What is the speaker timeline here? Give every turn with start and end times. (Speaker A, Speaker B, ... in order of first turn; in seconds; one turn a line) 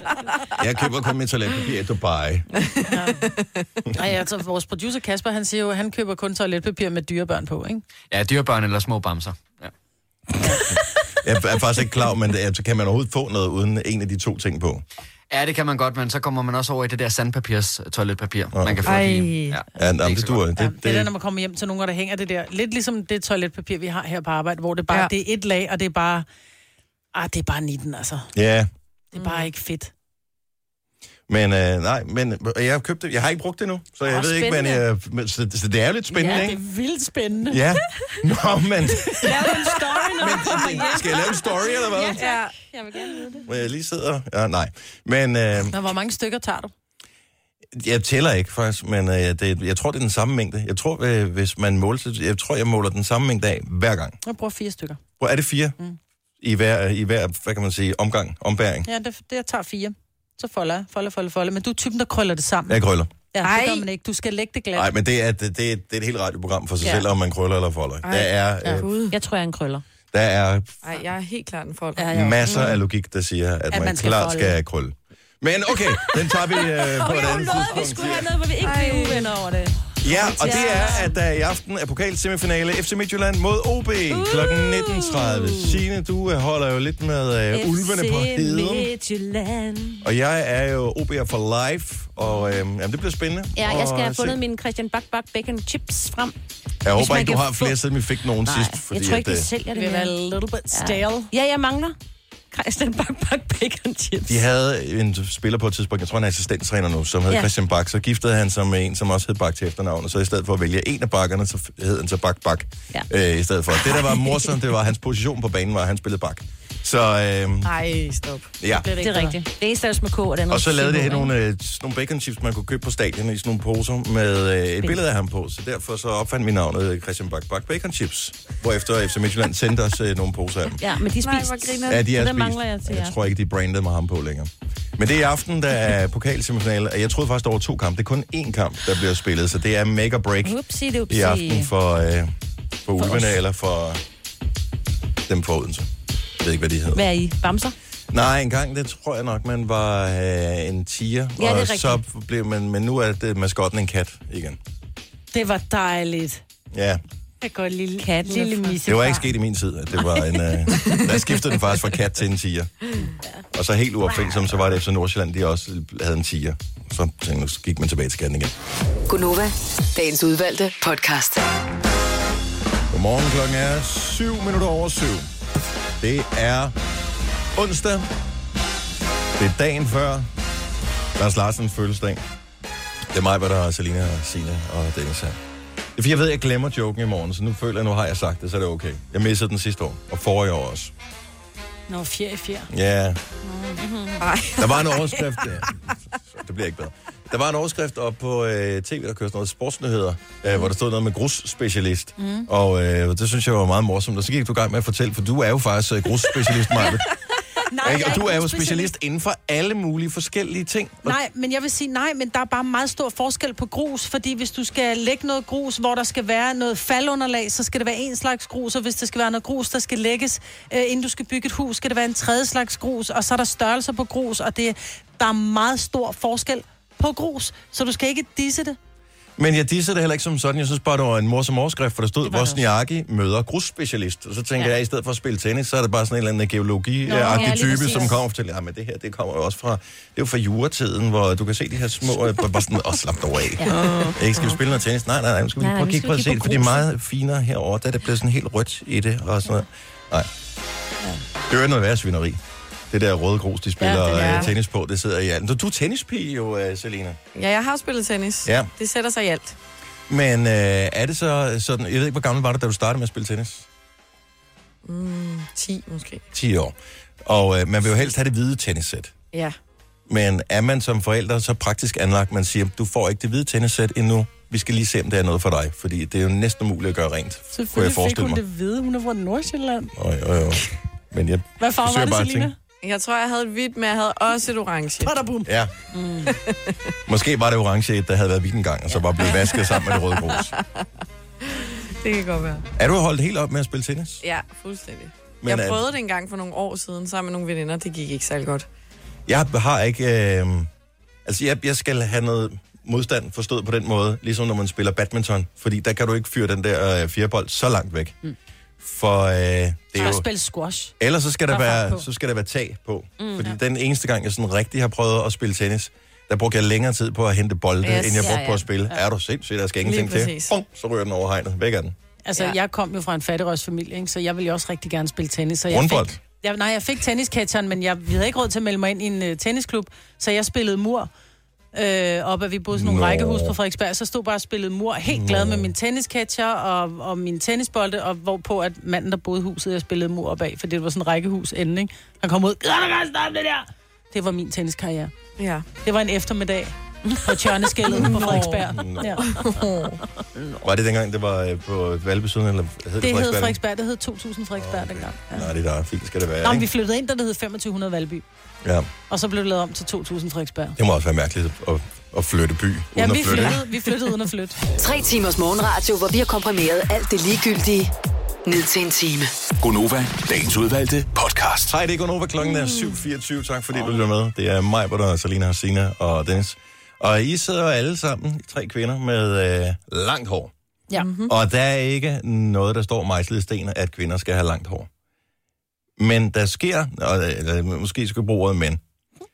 Speaker A: 0.6-2.5
Speaker B: 2.6-3.6
Speaker C: 2.9-3.2
Speaker C: 3.9-7.8
Speaker D: 8.1-9.7
Speaker A: 11.2-14.8
Speaker D: 15.3-20.5
Speaker A: 18.5-18.9
Speaker B: 18.8-19.6
Speaker A: 19.7-21.1
Speaker C: 20.6-26.2
Speaker C: 27.1-28.3
Speaker A: 28.3-28.7
Speaker C: 29.1-29.9
Speaker A: 31.3-36.6
Speaker E: 34.0-34.8
Speaker C: 36.1-37.6
Speaker A: 37.5-39.3
Speaker C: 39.1-41.0
Speaker E: 39.2-43.5
Speaker A: 40.2-42.2
Speaker B: 42.2-42.5
Speaker A: 43.5-45.7
Speaker C: 45.7-46.7
Speaker A: 47.7-54.2
Speaker C: 54.2-55.0
Speaker A: 55.2-55.7
Speaker A: 56.4-58.9
Speaker C: 58.9-62.8
Speaker A: 62.7-63.1
Speaker C: 63.3-64.9
Speaker B: 63.4-63.9
Speaker A: 64.7-68.8
Speaker B: 68.0-69.1
Speaker E: 69.1-69.8
Speaker A: 70.1-70.8
Speaker B: 70.8-72.1
Speaker C: 72.0-72.8
Speaker A: 72.1-78.4
Speaker C: 73.7-74.5
Speaker E: 76.7-81.1
Speaker B: 78.6-79.3
Speaker A: 80.0-88.9
Speaker C: 80.1-81.0
Speaker E: 84.1-85.8
Speaker E: 87.5-90.0
Speaker A: 90.0-94.4
Speaker E: 93.5-96.3
Speaker A: 96.8-99.5
Speaker E: 97.0-97.8
Speaker E: 98.4-100.1
Speaker C: 99.7-101.3
Speaker E: 100.7-102.0
Speaker E: 102.5-104.4
Speaker A: 104.3-117.7
Speaker E: 113.7-114.5
Speaker B: 117.6-118.5
Speaker A: 118.6-118.9
Speaker C: 118.7-119.4
Speaker E: 119.0-121.3
Speaker A: 120.5-130.8
Speaker E: 130.8-133.3
Speaker B: 131.2-131.9
Speaker A: 131.8-140.6
Speaker E: 140.4-141.7
Speaker A: 141.1-142.3
Speaker A: 142.8-144.0
Speaker E: 143.0-143.4
Speaker A: 145.3-145.9
Speaker A: 146.4-147.1
Speaker E: 146.9-147.7
Speaker A: 148.1-154.6
Speaker E: 151.4-152.0
Speaker C: 155.3-156.4
Speaker A: 156.7-157.0
Speaker C: 157.4-159.3
Speaker E: 158.0-158.8
Speaker A: 158.8-162.7
Speaker A: 163.5-168.5
Speaker F: 169.1-171.4
Speaker A: 172.9-175.3
Speaker A: 176.0-176.7
Speaker A: 177.6-178.1
Speaker A: 179.4-180.3
Speaker A: 181.2-182.2
Speaker A: 183.1-185.4
Speaker A: 185.9-190.9
Speaker C: 191.9-192.7
Speaker A: 192.7-193.2
Speaker C: 193.4-193.8
Speaker E: 193.8-194.2
Speaker B: 194.2-194.8
Speaker A: 194.6-207.0
Speaker C: 202.2-202.5
Speaker C: 207.6-208.9
Speaker A: 207.8-211.2
Speaker C: 211.0-228.8
Speaker A: 229.4-250.3
Speaker E: 232.3-232.6
Speaker E: 237.1-238.2
Speaker E: 243.6-244.1
Speaker E: 245.6-246.9
Speaker A: 251.5-252.4
Speaker A: 252.9-257.2
Speaker C: 253.8-254.4
Speaker B: 254.1-254.5
Speaker B: 257.3-259.6
Speaker A: 258.4-258.7
Speaker A: 260.1-263.7
Speaker B: 264.8-266.2
Speaker A: 266.3-269.1
Speaker A: 270.1-278.4
Speaker C: 277.5-279.9
Speaker A: 279.9-282.5
Speaker C: 281.6-282.5
Speaker B: 282.8-285.1
Speaker C: 285.0-286.3
Speaker A: 285.5-285.7
Speaker B: 286.3-286.7
Speaker A: 287.1-290.5
Speaker B: 289.2-290.9
Speaker B: 291.4-292.6
Speaker A: 292.8-294.2
Speaker B: 294.2-298.7
Speaker A: 295.4-295.8
Speaker A: 299.3-300.7
Speaker A: 301.2-308.1
Speaker A: 308.8-310.2
Speaker C: 309.9-310.9
Speaker A: 311.0-321.9
Speaker C: 311.5-312.0
Speaker E: 313.2-313.5
Speaker B: 317.8-318.4
Speaker E: 318.2-318.6
Speaker B: 319.8-320.5
Speaker C: 322.2-331.1
Speaker A: 325.7-326.2
Speaker C: 331.7-345.1
Speaker A: 332.7-333.6
Speaker A: 335.1-335.7
Speaker B: 345.4-345.6
Speaker C: 345.8-349.3
Speaker B: 347.9-348.7
Speaker A: 348.5-349.2
Speaker B: 349.2-350.0
Speaker A: 350.6-353.6
Speaker C: 353.0-355.5
Speaker A: 354.6-356.7
Speaker C: 356.4-358.2
Speaker A: 358.6-358.9
Speaker C: 359.1-360.8
Speaker A: 360.8-363.6
Speaker C: 362.9-364.6
Speaker F: 364.8-367.9
Speaker F: 368.4-369.3
Speaker G: 369.6-371.7
Speaker A: 371.7-380.5
Speaker B: 372.5-372.9
Speaker B: 380.9-381.3
Speaker A: 381.3-384.9
Speaker A: 386.0-388.8